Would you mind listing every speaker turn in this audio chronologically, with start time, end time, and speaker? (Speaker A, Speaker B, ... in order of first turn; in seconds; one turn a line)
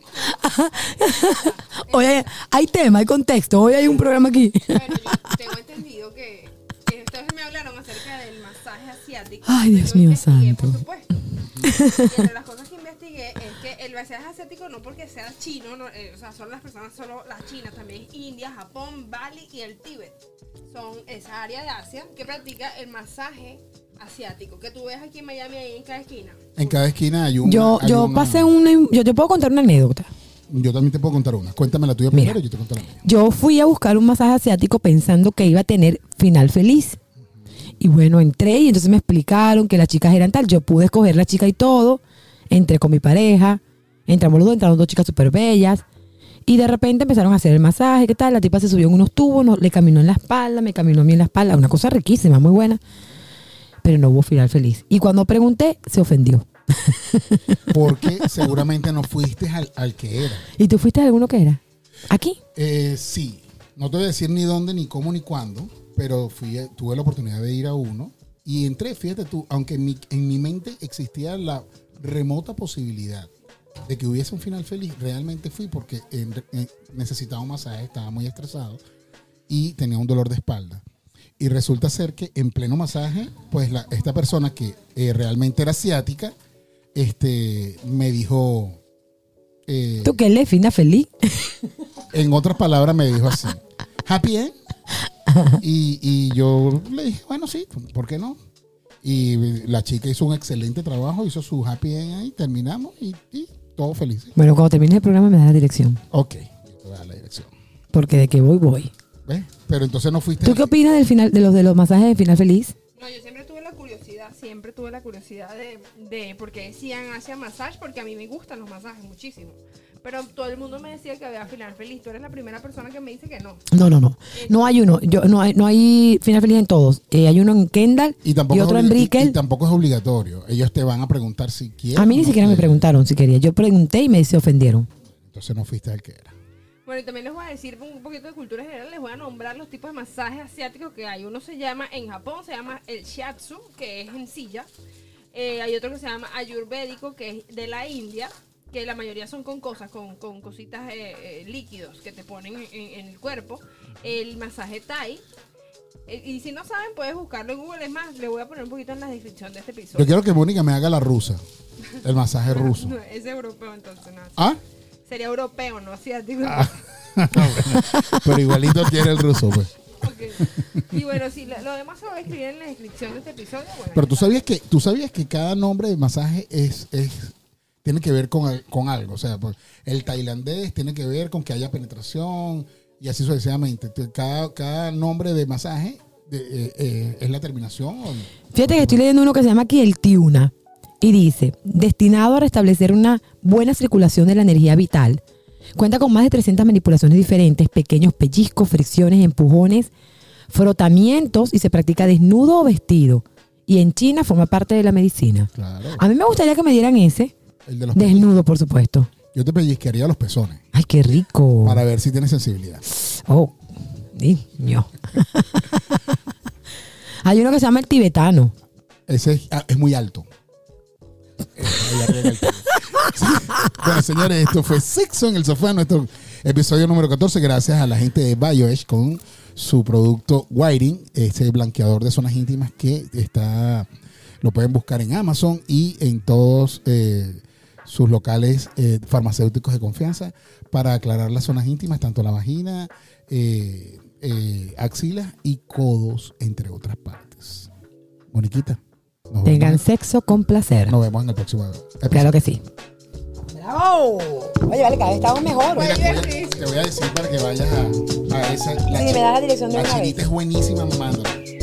Speaker A: 0.2-5.2
Speaker B: 0.8-2.2
Speaker B: 4.7-20.2
Speaker A: 9.5-10.8
Speaker A: 11.6-12.1
Speaker B: 20.7-26.6
Speaker C: 26.6-28.5
Speaker A: 27.4-30.1
Speaker C: 30.5-33.0
Speaker A: 32.1-32.4
Speaker A: 33.0-37.0
Speaker A: 37.8-45.9
Speaker A: 46.5-52.8
Speaker A: 53.8-58.1
Speaker C: 57.7-60.5
Speaker A: 60.6-62.4
Speaker C: 62.5-73.3
Speaker C: 73.9-78.8
Speaker C: 79.5-80.8
Speaker C: 81.4-86.3
Speaker C: 87.0-88.8
Speaker C: 89.7-90.2
Speaker A: 90.0-91.5
Speaker C: 92.1-94.5
Speaker C: 95.5-98.4
Speaker C: 99.0-104.3
Speaker A: 104.4-106.0
Speaker C: 106.1-107.5
Speaker A: 107.9-108.9
Speaker C: 109.3-110.8
Speaker A: 110.4-112.7
Speaker B: 113.0-123.6
Speaker A: 123.7-129.4
Speaker B: 124.3-124.9
Speaker C: 128.2-132.9
Speaker A: 131.9-134.9
Speaker C: 135.2-136.4
Speaker B: 136.9-144.7
Speaker B: 145.3-155.2
Speaker B: 156.1-160.2
Speaker C: 159.9-161.4
Speaker C: 162.0-162.9
Speaker B: 162.5-164.5
Speaker B: 165.1-166.8
Speaker C: 166.4-169.7
Speaker A: 167.7-168.1
Speaker B: 170.0-174.5
Speaker C: 170.5-170.9
Speaker C: 173.9-189.0
Speaker A: 188.5-195.2
Speaker A: 195.8-199.9
Speaker A: 200.5-207.3
Speaker C: 205.6-206.0
Speaker C: 207.7-208.4
Speaker A: 207.9-209.1
Speaker C: 209.3-210.6
Speaker A: 210.7-211.8
Speaker C: 211.6-212.8
Speaker A: 213.1-213.6
Speaker A: 214.1-215.7
Speaker A: 217.2-218.5
Speaker C: 219.1-220.3
Speaker C: 221.6-233.9
Speaker C: 234.4-247.7
Speaker C: 248.3-248.8
Speaker C: 249.3-249.8
Speaker A: 249.5-251.0
Speaker C: 250.9-252.3
Speaker A: 252.1-252.6
Speaker A: 253.5-256.0
Speaker B: 255.6-256.7
Speaker C: 255.7-261.4
Speaker A: 258.9-260.2